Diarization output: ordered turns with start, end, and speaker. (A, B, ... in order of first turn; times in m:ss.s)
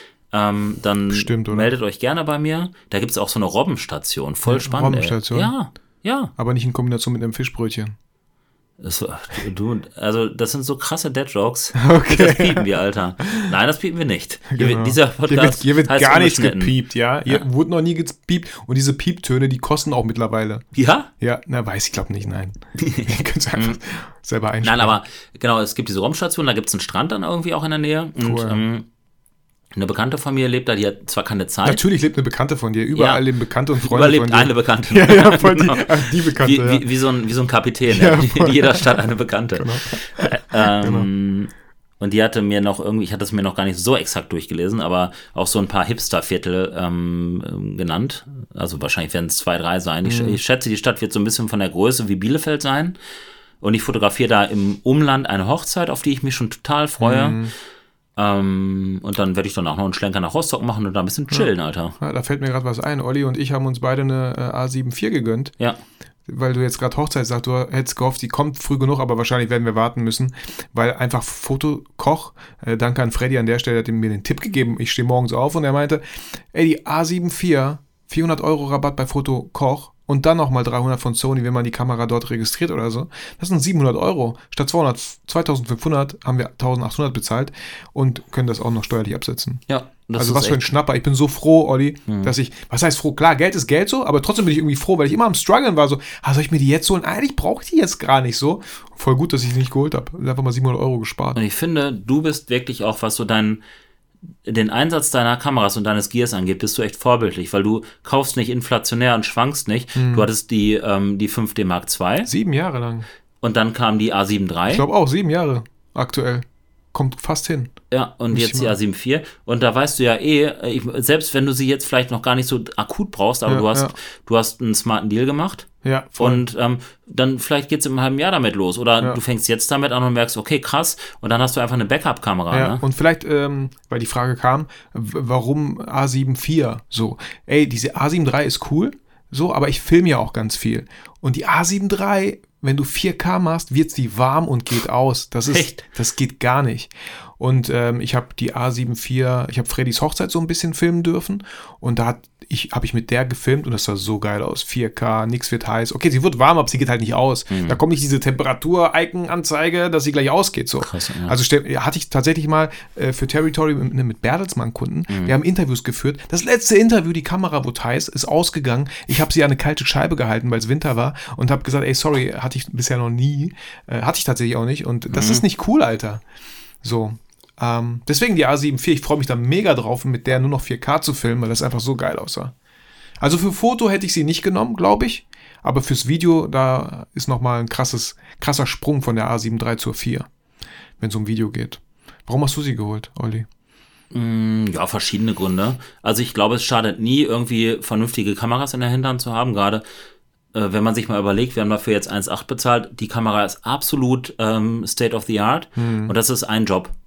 0:00.3-0:06.3 A
0:01.1-0:01.7 B
0:04.4-0:05.6 B
0:06.4-0:07.9 B
0:08.8-0:16.8 A
0:11.8-0:12.7 B
0:13.2-0:13.5 B
0:14.5-0:20.6 B
0:20.7-0:21.1 A
0:21.2-0:24.9 B
0:22.8-0:23.8 A
0:24.6-0:28.9 A
0:28.2-0:28.6 B
0:29.7-0:31.8 A
0:31.6-0:36.8 B
0:32.9-0:33.2 A
0:33.8-0:53.0 A
0:37.9-0:39.0 B
0:39.6-0:41.1 B
0:50.0-0:50.4 B
0:53.6-0:57.4 A
0:57.0-0:57.5 B
0:58.2-1:02.0 A
1:01.3-1:05.5 B
1:06.3-1:29.6 B
1:29.7-1:30.7 A
1:30.1-1:41.4 B
1:32.1-1:32.3 A
1:41.3-1:43.6 A
1:44.4-1:52.3 A
1:49.9-1:50.3 B
1:52.2-1:53.0 B
1:53.4-1:54.8 A
1:54.7-1:57.7 B
1:57.9-2:12.8 A
1:58.3-1:58.7 B
2:03.4-2:03.9 B
2:05.8-2:06.4 B
2:12.5-2:56.2 B
2:25.5-2:25.8 A
2:37.5-2:37.8 A
2:40.8-2:41.4 A
2:45.1-2:45.4 A
2:55.1-2:55.4 A
2:56.8-3:02.5 B
3:03.2-3:10.3 B
3:11.0-3:13.5 B
3:14.1-3:19.8 A
3:20.5-3:26.9 A
3:25.8-3:26.1 B